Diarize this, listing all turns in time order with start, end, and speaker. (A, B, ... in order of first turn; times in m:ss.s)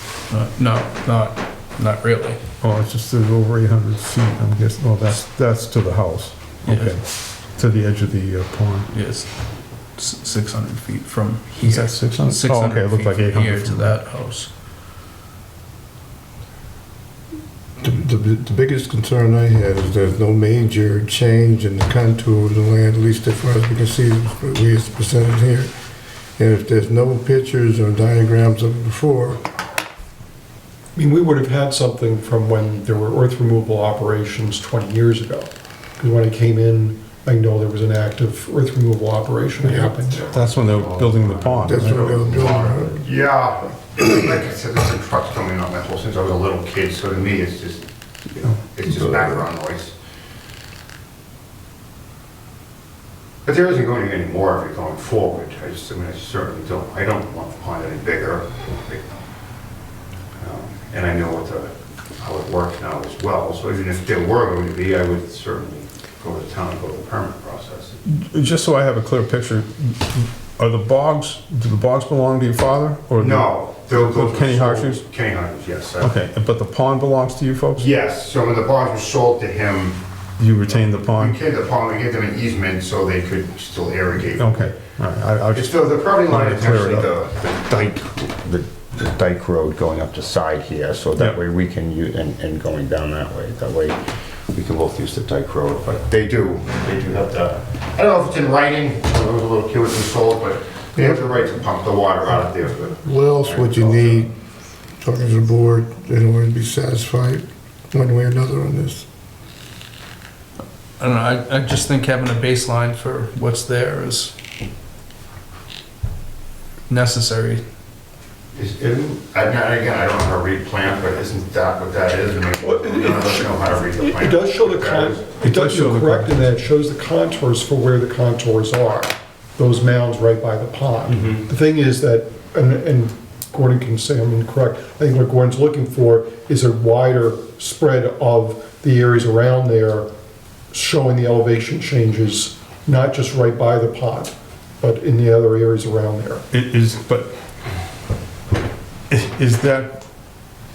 0:00.3-0:02.4 A
0:02.6-0:08.9 B
0:06.6-0:07.0 A
0:08.9-0:14.5 A
0:11.6-0:14.0 B
0:17.8-0:25.7 C
0:26.4-0:29.4 C
0:31.0-0:40.3 D
0:39.7-0:50.0 E
0:40.3-0:42.6 B
0:41.6-0:43.0 C
0:53.4-0:59.1 E
1:00.4-1:08.0 E
1:08.1-1:15.0 B
1:13.2-1:16.2 E
1:16.0-1:17.9 B
1:17.8-1:20.0 E
1:20.4-1:21.4 B
1:21.1-1:24.8 E
1:24.4-1:27.1 B
1:25.5-1:34.0 E
1:34.5-1:44.3 E
1:42.9-1:44.3 C
1:45.0-1:49.1 C
1:51.0-1:54.3 A
1:56.9-1:57.6 A
1:58.6-2:05.4 E
2:02.6-2:20.1 D
2:05.4-2:06.6 B
2:11.1-2:11.4 E
2:20.7-2:26.4 D
2:26.5-2:27.3 B
2:29.1-2:30.0 B